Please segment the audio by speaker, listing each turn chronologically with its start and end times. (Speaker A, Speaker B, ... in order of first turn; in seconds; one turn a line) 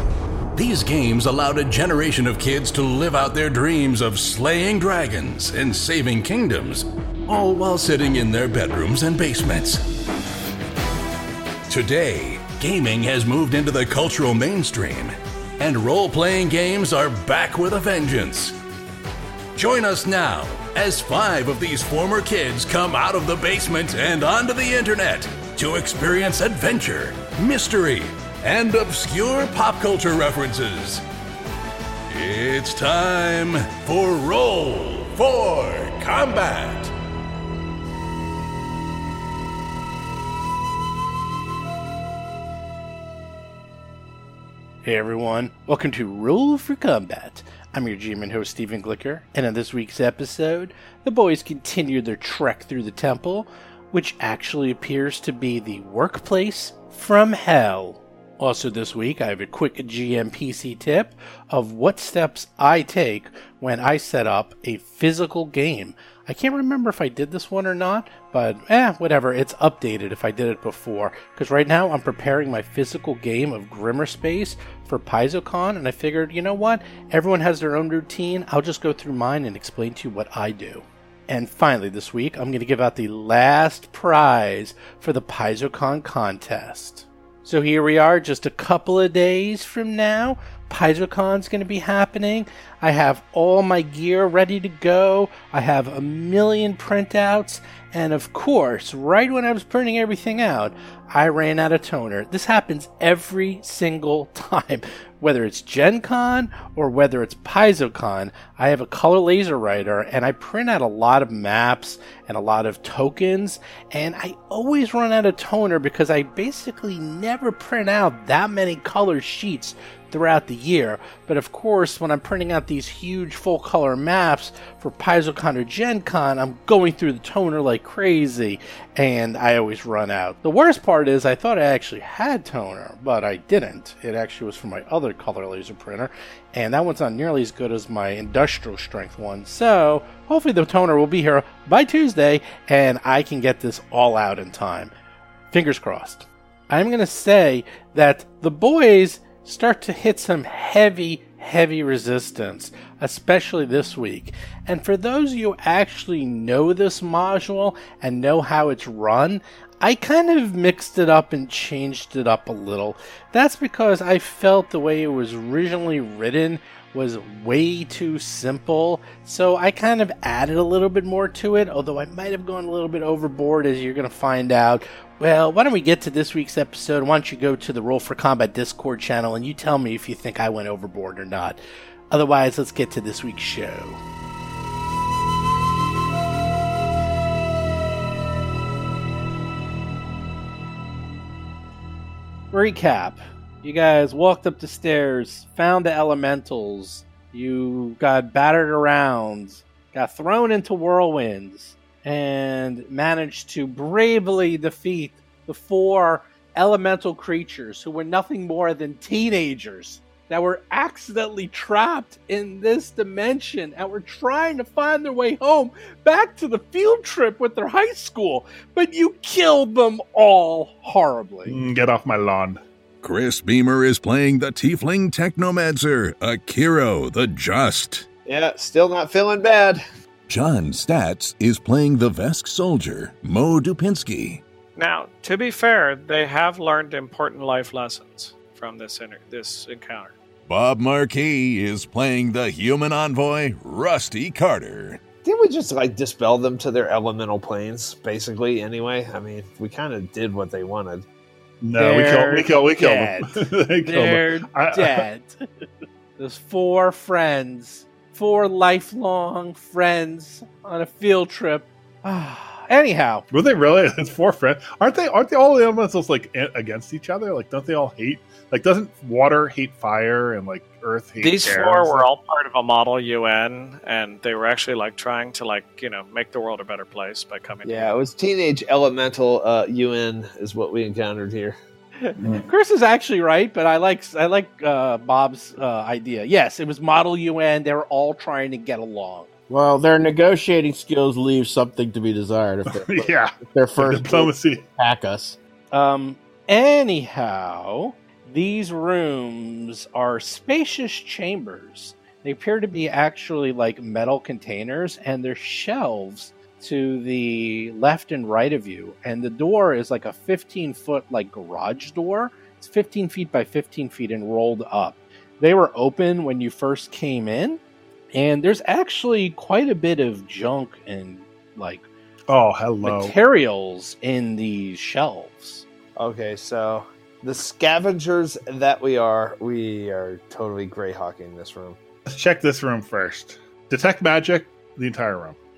Speaker A: 0.5-9.9
Speaker A: 11.7-18.6
Speaker A: 19.6-31.0
Speaker A: 32.1-36.9
Speaker B: 44.8-144.9
Speaker B: 145.5-184.0
Speaker B: 192.5-221.6
Speaker C: 221.5-222.6
Speaker A: 223.0-228.1
Speaker D: 228.3-229.8
Speaker A: 230.3-234.4
Speaker E: 234.8-240.2
Speaker A: 240.5-245.0
Speaker D: 245.2-251.1
Speaker C: 251.6-255.1
Speaker B: 251.8-255.3
Speaker B: 256.2-263.2
Speaker C: 263.3-272.1
Speaker E: 271.2-278.0
Speaker D: 277.6-281.6
Speaker B: 282.0-289.3
Speaker C: 282.2-282.5
Speaker F: 289.5-295.4
Speaker C: 292.7-294.6
Speaker B: 295.7-317.6
Speaker B: 318.1-321.9
Speaker C: 322.3-323.2
Speaker B: 322.8-325.6
Speaker D: 326.0-331.8
Speaker C: 332.1-335.4